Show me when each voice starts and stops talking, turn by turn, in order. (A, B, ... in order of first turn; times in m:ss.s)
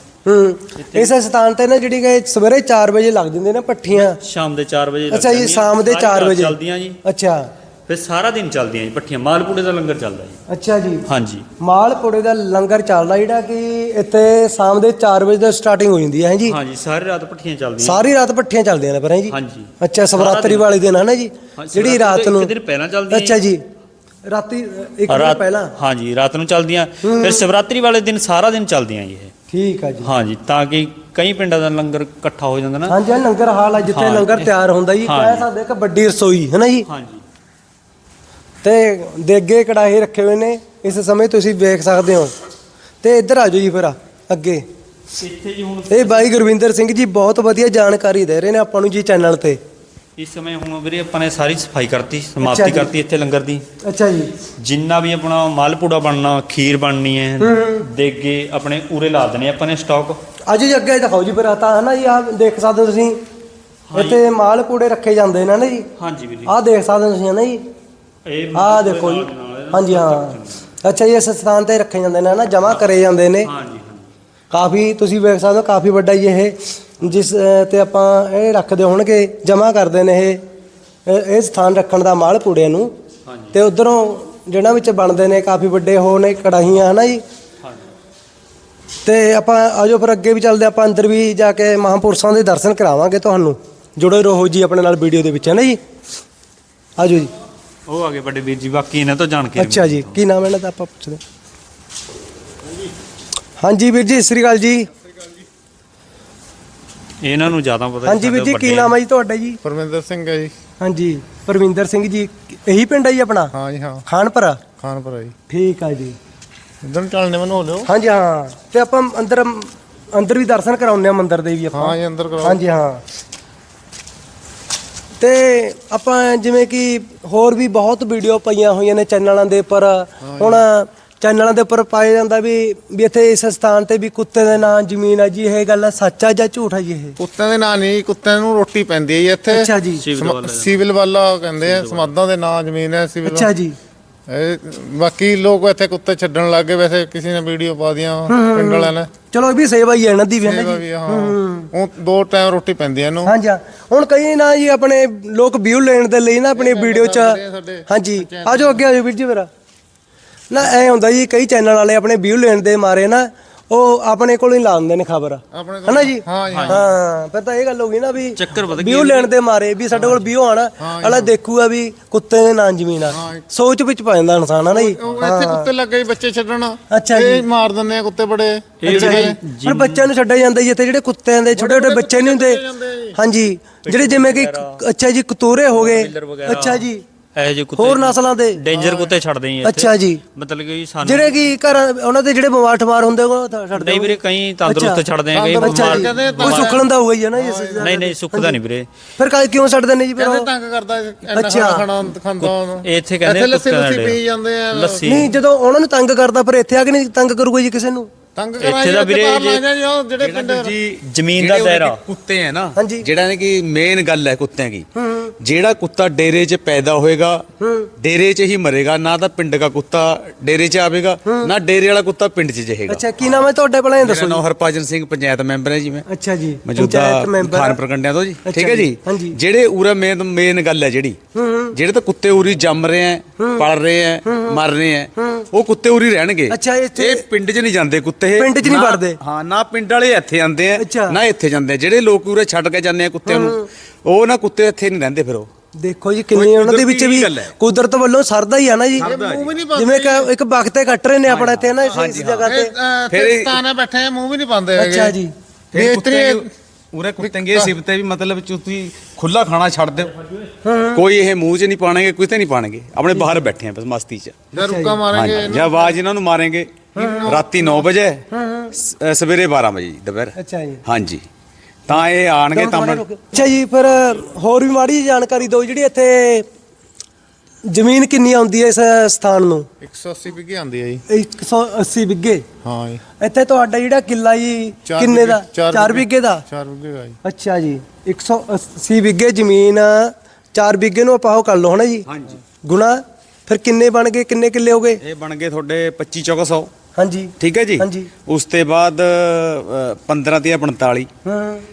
0:00.2-0:04.2 A
0:00.8-0:01.1 B
0:03.9-0:07.0 B
0:05.1-0:07.5 A
0:07.9-0:10.4 B
0:10.5-0:11.0 A
0:11.1-0:11.5 B
0:11.6-0:16.6 A
0:16.4-0:18.1 B
0:17.8-0:22.5 A
0:19.3-0:20.7 B
0:21.6-0:23.4 B
0:23.1-0:23.6 A
0:24.3-0:25.7 A
0:25.1-0:29.3 B
0:27.0-0:27.4 A
0:29.5-0:30.1 A
0:30.0-0:33.0 B
0:32.9-0:36.9 A
0:33.9-0:34.5 B
0:35.0-0:35.5 B
0:36.9-0:37.2 B
0:38.6-0:42.3 A
0:43.0-0:44.6 A
0:45.2-0:46.3 B
0:45.9-0:49.6 A
0:50.2-0:53.6 B
0:52.4-0:52.9 A
0:53.8-0:54.3 A
0:54.6-1:00.2 B
0:57.4-0:57.8 A
1:00.5-1:03.2 A
1:03.9-1:04.2 B
1:03.9-1:05.9 A
1:06.0-1:06.5 B
1:06.4-1:07.6 A
1:08.2-1:10.6 B
1:08.5-1:13.5 A
1:13.4-1:14.1 B
1:14.5-1:20.4 A
1:21.1-1:22.9 A
1:23.2-1:23.6 B
1:23.5-1:27.2 A
1:29.0-1:35.8 A
1:37.0-1:37.3 A
1:37.9-1:40.2 B
1:39.6-1:41.2 A
1:43.6-1:44.9 A
1:47.2-1:49.0 B
1:48.0-1:49.6 A
1:49.6-1:50.5 C
1:50.8-1:53.5 A
1:53.5-1:54.0 C
1:54.1-1:54.6 A
1:54.8-1:55.3 C
1:55.5-1:56.2 A
1:56.8-1:57.9 C
1:57.9-2:03.0 A
2:01.7-2:02.6 C
2:05.2-2:17.2 A
2:10.2-2:10.6 C
2:17.2-2:23.5 C
2:19.5-2:20.0 A
2:20.0-2:20.8 B
2:21.6-2:22.1 B
2:23.2-2:23.8 A
2:24.3-2:29.1 C
2:28.3-2:31.7 A
2:30.4-2:33.3 C
2:33.2-2:39.5 A
2:36.5-2:38.8 C
2:40.5-2:55.7 A
2:45.5-2:46.8 C
2:46.5-2:46.8 B
2:48.3-2:49.3 B
2:49.9-2:50.3 B
2:50.8-2:51.3 C
2:53.1-2:53.4 C
2:54.7-2:59.4 C
2:56.9-2:57.4 A
2:58.8-3:00.1 B
2:58.8-3:02.6 A
3:01.5-3:03.2 C
3:03.2-3:07.0 A
3:03.8-3:04.8 B
3:05.7-3:11.4 B
3:07.8-3:08.6 A
3:08.7-3:09.1 C
3:09.6-3:10.2 A
3:11.0-3:18.6 A
3:13.7-3:16.8 B
3:15.3-3:16.8 C
3:17.4-3:17.9 C
3:17.8-3:18.9 B
3:19.2-3:20.5 A
3:20.2-3:25.1 C
3:21.2-3:21.9 A
3:22.4-3:24.2 B
3:24.7-3:25.3 B
3:25.0-3:28.1 A
3:28.4-3:30.8 C
3:28.6-3:29.6 B
3:30.2-3:34.9 D
3:31.0-3:32.0 B
3:32.8-3:33.1 A
3:35.0-3:35.3 A
3:35.4-3:37.4 D
3:37.6-3:37.9 A
3:38.0-3:43.5 D
3:41.3-3:41.5 A
3:42.9-3:44.4 A
3:44.0-3:46.0 D
3:46.1-3:47.8 A
3:46.6-3:51.2 D
3:48.4-3:49.4 A
3:51.3-3:51.8 A
3:51.7-4:05.5 D
3:53.4-3:53.7 A
3:54.2-3:54.6 A
3:55.2-3:55.5 A
3:56.5-3:57.2 A
3:58.3-3:59.2 A
4:00.8-4:01.2 A
4:03.2-4:03.7 A
4:05.8-4:09.2 A
4:06.3-4:07.5 D
4:09.0-4:10.3 C
4:09.0-4:09.6 D
4:09.7-4:12.7 A
4:11.2-4:12.5 D
4:11.9-4:15.1 C
4:13.1-4:13.6 D
4:14.8-4:15.3 A
4:15.7-4:20.1 D
4:15.7-4:16.5 C
4:17.2-4:17.8 C
4:20.6-4:21.0 A
4:20.9-4:24.4 D
4:24.5-4:26.0 C
4:24.6-4:25.0 A
4:25.1-4:31.2 D
4:26.9-4:27.4 A
4:26.9-4:27.9 C
4:28.3-4:28.7 A
4:30.4-4:30.8 A
4:31.9-4:33.0 D
4:32.5-4:36.4 A
4:37.7-4:39.7 A
4:39.8-4:41.0 C
4:41.1-4:42.4 A
4:42.6-4:43.0 C
4:43.2-4:46.4 A
4:44.8-4:47.2 C
4:47.2-4:52.1 A
4:52.1-4:52.4 D
4:52.6-4:55.0 A
4:55.0-4:56.7 D
4:57.0-4:58.1 A
4:57.4-5:01.1 D
5:01.2-5:01.6 A